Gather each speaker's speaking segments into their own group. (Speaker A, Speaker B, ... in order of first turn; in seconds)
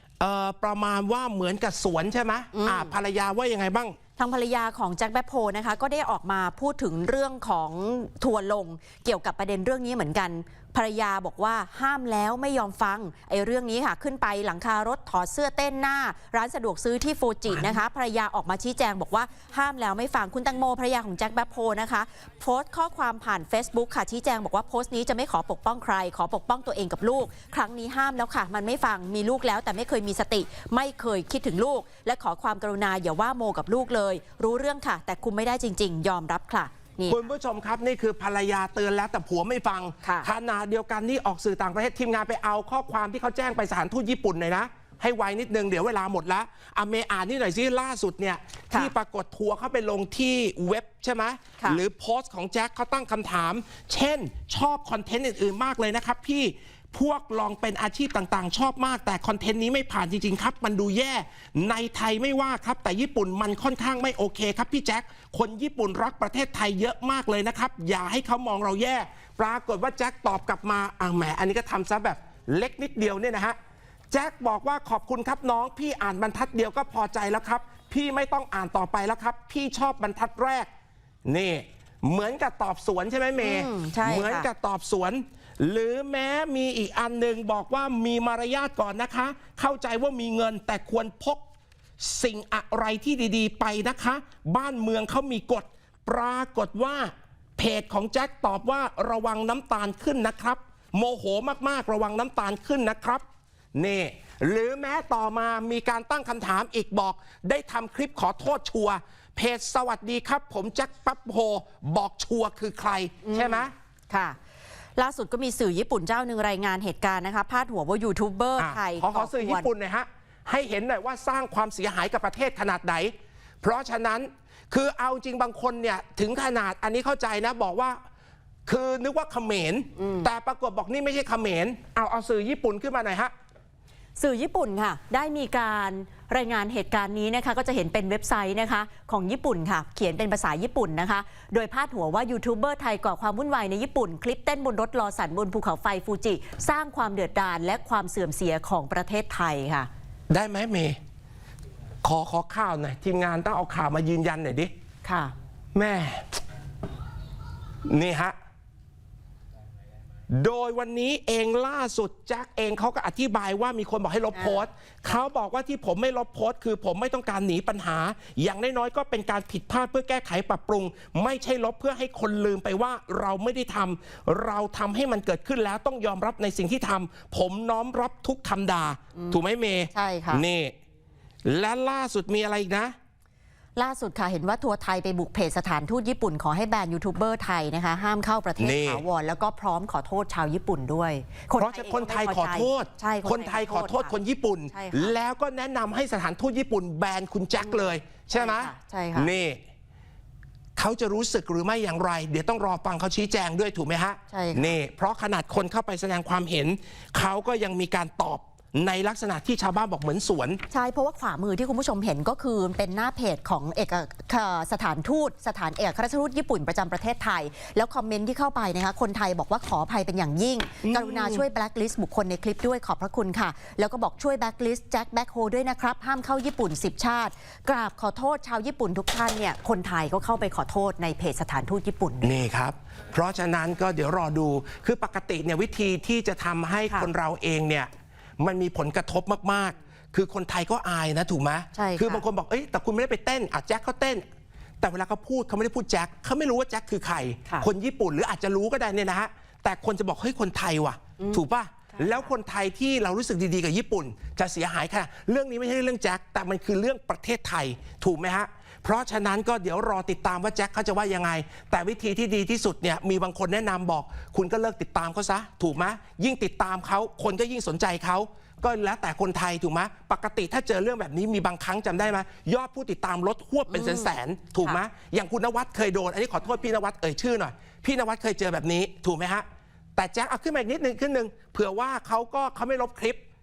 Speaker A: 0.2-4.0, 37.1-73.5, 74.1-80.7, 81.2-91.4, 92.0-103.2, 103.7-113.7, 118.6-128.0, 128.7-133.3, 150.3-151.0, 152.0-154.7, 155.7-156.3, 157.8-158.3, 160.3-180.7, 181.4-182.9, 188.6-189.0, 191.6-199.6, 200.8-210.6, 220.8-221.4, 232.2-237.9, 238.4-244.2, 244.8-283.2
Speaker B: 2.5-2.9, 4.2-37.3, 40.0-40.3, 83.4-84.5, 113.2-114.4, 115.0-119.7, 130.0-130.3, 134.2-149.9, 155.0-155.3, 164.3-165.2, 179.9-180.4, 183.8-194.1, 194.7-195.1, 197.6-199.3, 204.3-204.8, 210.7-232.3, 241.7-242.2, 251.9-252.3, 273.7-274.8